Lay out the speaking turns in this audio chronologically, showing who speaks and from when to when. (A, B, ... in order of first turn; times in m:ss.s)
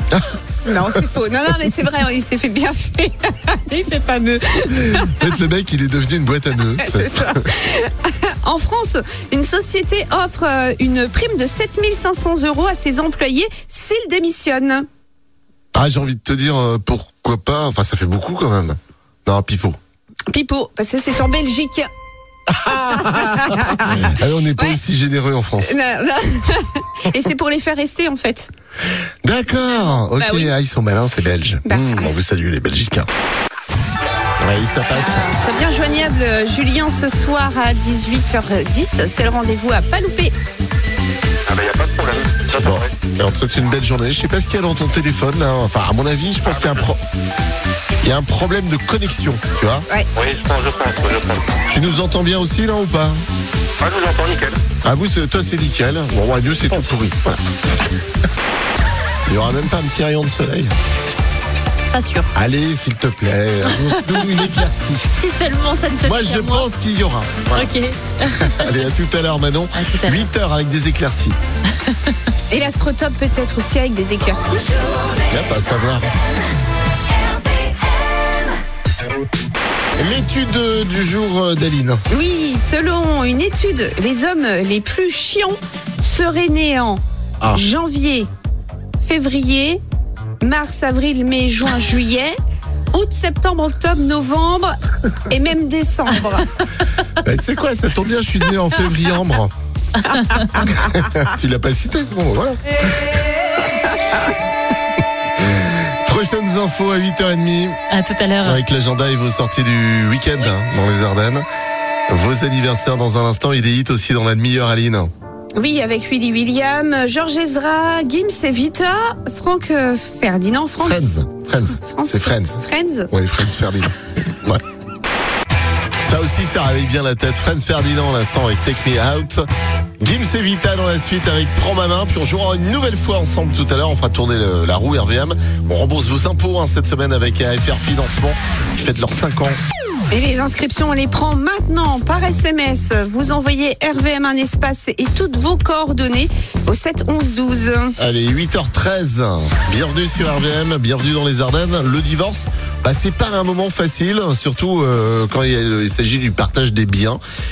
0:00.1-0:01.0 A
0:00.7-0:05.2 B
0:04.8-0:07.4 A
0:06.8-0:14.8 B
0:15.7-0:19.8 A
0:20.3-0:21.9 B
0:22.5-0:25.7 A
0:23.0-0:24.8 B
0:25.6-0:28.5 B
0:29.2-0:33.1 A
0:30.2-0:30.5 B
0:31.6-0:32.1 B
0:34.4-0:35.3 A
0:35.0-0:40.3 B
0:41.4-0:42.9 C
0:42.6-0:47.0 A
0:46.4-0:46.8 C
0:48.0-0:49.8 A
0:50.1-0:51.6 C
0:51.7-0:53.2 A
0:53.8-0:54.6 C
0:54.8-0:57.6 A
0:59.3-1:00.7 A
1:01.9-1:02.3 D
1:02.3-1:05.1 A
1:03.7-1:04.0 D
1:05.2-1:06.7 D
1:06.0-1:07.7 A
1:07.5-1:08.6 D
1:08.2-1:11.4 A
1:09.7-1:10.3 D
1:12.5-1:14.7 B
1:15.3-1:16.1 A
1:19.9-1:22.0 A
1:22.1-1:28.3 B
1:29.0-1:29.8 B
1:30.4-1:32.3 B
1:32.9-1:34.7 B
1:35.3-1:36.5 B
1:37.2-1:39.5 A
1:40.0-1:40.6 D
1:40.6-1:43.2 A
1:45.4-1:47.8 A
1:47.9-1:48.6 D
1:48.4-1:51.4 A
1:52.1-1:55.1 A
1:55.5-2:01.2 B
2:00.8-2:04.6 A
2:01.8-2:03.1 B
2:06.0-2:09.4 A
2:10.0-2:19.6 A
2:20.1-2:27.9 B
2:28.0-2:37.2 A